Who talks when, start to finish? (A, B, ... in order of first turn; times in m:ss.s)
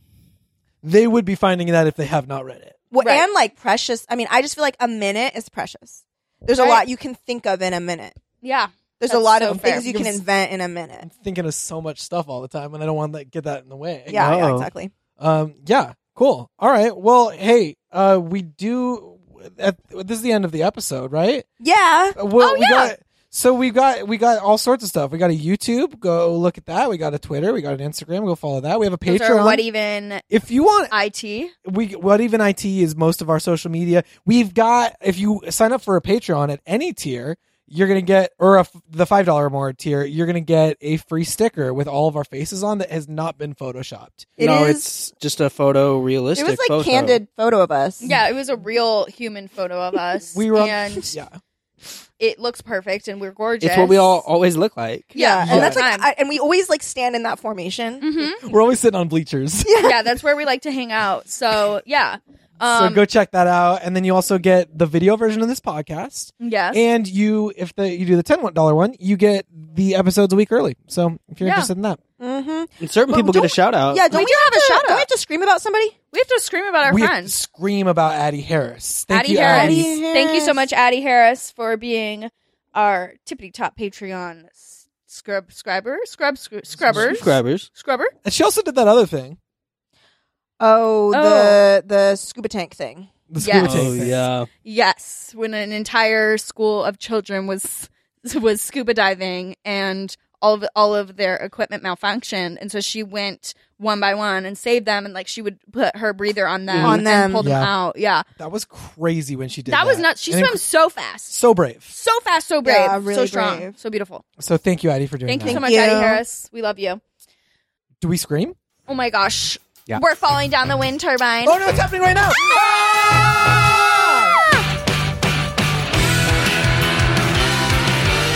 0:00.8-0:02.8 A
0:02.9-0:08.2 B
0:03.0-0:03.3 C
0:06.6-0:06.8 C
0:08.4-0:09.9 C
0:09.0-0:11.1 B
0:09.5-0:10.2 A
0:11.0-0:14.3 A
0:14.1-0:14.9 B
0:14.2-0:14.7 D
0:15.2-0:21.5 A
0:21.6-0:22.2 B
0:22.2-0:29.6 A
0:22.4-0:22.9 C
0:29.1-0:30.2 C
0:30.3-0:30.9 A
0:30.9-0:31.5 C
0:31.6-0:44.4 A
0:44.4-0:44.9 B
0:44.4-0:47.2 D
0:46.4-0:48.2 B
0:48.0-0:51.1 C
0:50.3-0:51.4 A
0:52.2-0:54.2 C
0:53.6-0:55.2 D
0:55.2-0:56.1 C
0:55.2-0:58.1 B
0:55.4-0:55.8 A
0:58.0-0:58.5 C
0:58.2-0:59.7 A
0:59.6-1:00.0 B
0:59.8-1:03.0 C
1:02.6-1:12.0 A
1:06.4-1:06.8 C
1:11.4-1:11.7 C
1:12.2-1:16.0 B
1:12.8-1:14.0 D
1:14.1-1:15.1 C
1:16.1-1:17.4 C
1:16.8-1:20.0 A
1:19.1-1:28.1 C
1:19.4-1:20.6 B
1:26.8-1:27.2 A
1:26.9-1:27.7 D
1:28.2-1:29.4 A
1:30.6-1:33.1 B
1:31.1-1:31.6 C
1:33.3-1:34.3 A
1:33.4-1:33.9 C
1:33.6-1:34.5 D
1:34.6-1:48.2 C
1:46.7-1:47.7 A
1:46.8-1:47.5 B
1:48.4-1:50.6 A
1:49.7-1:51.4 C
1:51.3-1:51.9 A
1:51.9-1:54.2 C
1:52.6-1:53.8 B
1:54.4-1:55.7 A
1:55.3-1:57.0 C
1:55.5-1:56.2 B
1:58.0-1:58.6 A
1:58.9-2:01.6 C
2:01.4-2:04.4 A